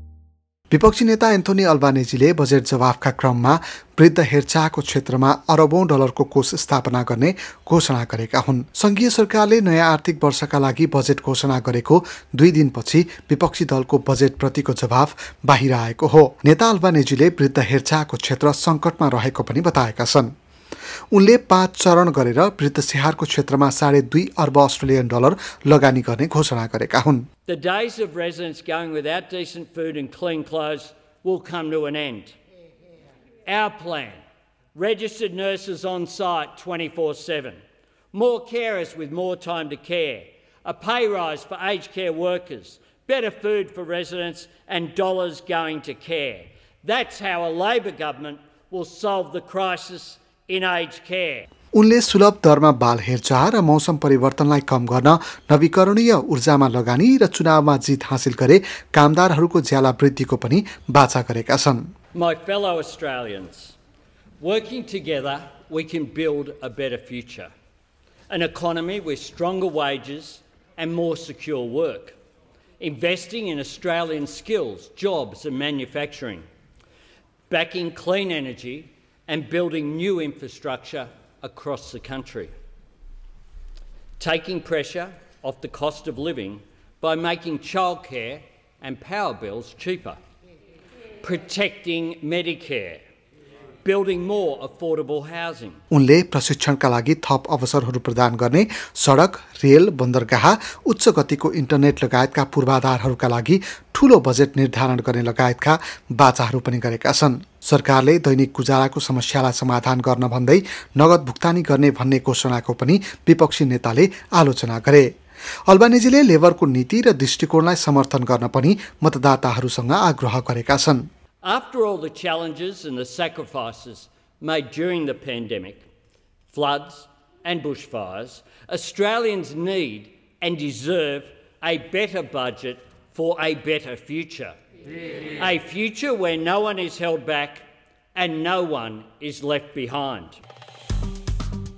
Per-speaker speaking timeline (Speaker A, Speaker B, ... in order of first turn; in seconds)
Speaker A: 0.7-20.3, 21.1-27.2, 51.7-61.9, 95.9-115.1, 115.7-121.0
Speaker B: 27.5-32.4, 33.5-34.2, 34.7-37.6, 38.1-51.5, 62.1-63.8, 64.4-67.5, 68.3-72.2, 72.8-76.5, 77.5-82.5, 84.2-90.2, 91.2-93.0, 93.8-95.8, 121.4-125.9, 126.5-134.6, 135.4-140.4